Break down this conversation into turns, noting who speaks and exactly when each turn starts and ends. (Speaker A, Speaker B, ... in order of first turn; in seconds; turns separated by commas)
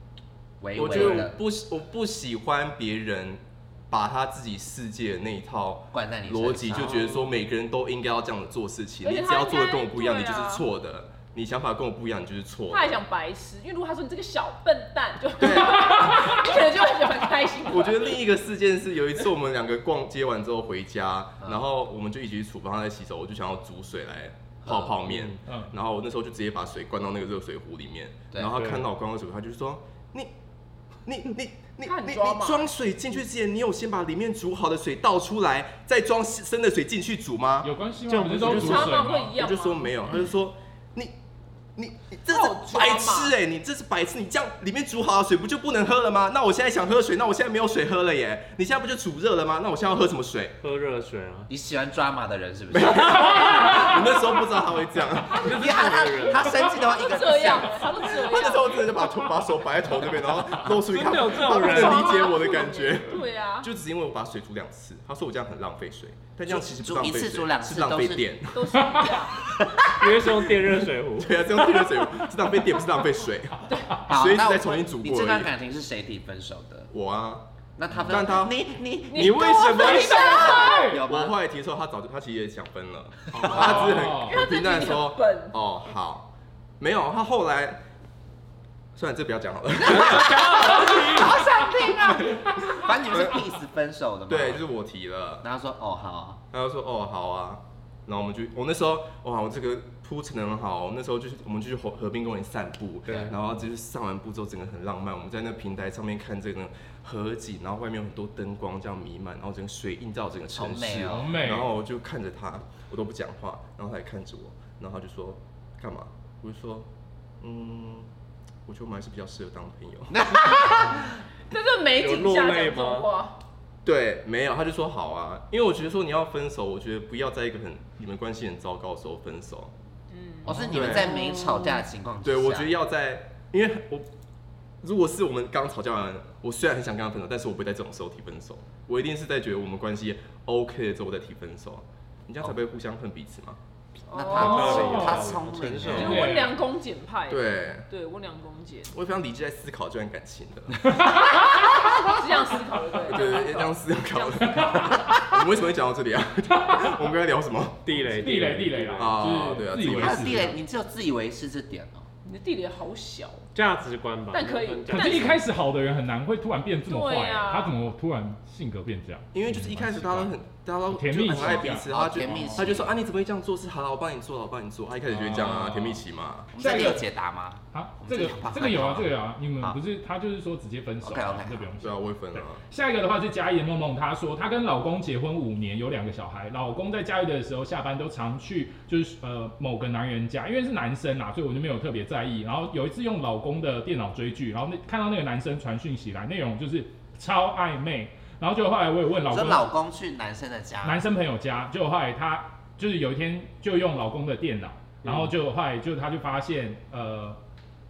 Speaker A: 0.6-1.4, Speaker B: 0.8-12.9, Speaker C: 0.8-1.3, Speaker A: 5.9-7.1, Speaker C: 6.7-7.3, Speaker D: 9.0-10.7, Speaker D: 12.7-18.2, Speaker B: 15.4-16.4, Speaker E: 15.9-16.3, Speaker B: 17.7-30.3, Speaker A: 24.6-25.0, Speaker E: 25.4-25.7, Speaker C: 28.5-28.9, Speaker B: 31.0-37.7, Speaker D: 31.8-32.7, Speaker E: 37.6-39.3, Speaker C: 38.1-39.0, Speaker D: 38.4-39.9, Speaker B: 39.3-41.1, Speaker B: 41.8-50.6, Speaker D: 42.3-43.3, Speaker C: 50.6-51.5, Speaker A: 51.5-53.8, Speaker B: 52.7-55.7, Speaker D: 53.5-54.0, Speaker C: 55.3-56.5, Speaker A: 55.5-57.9, Speaker D: 56.4-59.0, Speaker B: 58.1-69.2, Speaker C: 60.8-62.2, Speaker D: 61.2-63.7, Speaker A: 66.5-68.3, Speaker D: 68.5-69.4, Speaker A: 69.3-70.1, Speaker C: 70.0-71.7, Speaker B: 71.2-75.5, Speaker A: 74.1-76.9, Speaker B: 76.9-78.6, Speaker A: 77.8-81.4, Speaker D: 79.1-80.9, Speaker C: 79.1-80.7, Speaker E: 80.4-81.0, Speaker B: 80.9-87.8, Speaker E: 83.4-84.4, Speaker D: 83.5-85.5, Speaker B: 88.9-90.7, Speaker C: 89.8-91.5, Speaker A: 89.9-94.6, Speaker B: 92.7-93.4, Speaker B: 94.3-95.4, Speaker A: 95.4-96.4, Speaker B: 96.5-116.9, Speaker C: 103.0-103.4, Speaker A: 110.5-111.3, Speaker E: 111.1-111.7, Speaker B: 117.4-118.1, Speaker B: 118.7-120.2, Speaker A: 120.1-121.2, Speaker D: 120.5-120.9, Speaker D: 121.5-123.4, Speaker C: 122.0-123.1, Speaker B: 123.8-129.7, Speaker D: 130.1-131.7, Speaker A: 130.4-132.7, Speaker B: 130.7-131.1, Speaker B: 132.2-134.1, Speaker B: 134.8-143.6, Speaker D: 144.1-145.0, Speaker A: 144.1-146.2, Speaker C: 144.2-146.3, Speaker E: 144.3-145.2, Speaker D: 145.8-148.9, Speaker E: 145.9-146.6, Speaker B: 147.3-147.8, Speaker B: 148.9-151.0, Speaker E: 150.9-151.6, Speaker D: 151.6-155.0, Speaker B: 153.0-157.9, Speaker E: 156.6-156.9, Speaker C: 157.8-159.5, Speaker E: 158.1-160.6, Speaker B: 158.9-160.6, Speaker A: 159.8-162.1, Speaker D: 162.2-163.5, Speaker C: 163.5-165.4, Speaker D: 164.3-165.4, Speaker E: 164.9-169.8, Speaker D: 166.8-167.8, Speaker B: 169.3-176.5, Speaker A: 169.5-169.8, Speaker E: 170.9-172.6, Speaker A: 171.3-172.9, Speaker E: 175.1-176.0, Speaker A: 176.5-179.8, Speaker E: 176.6-177.0, Speaker E: 177.7-199.7, Speaker A: 181.0-181.7, Speaker B: 181.8-182.6, Speaker A: 199.3-201.0, Speaker E: 200.8-207.4, Speaker C: 205.0-205.3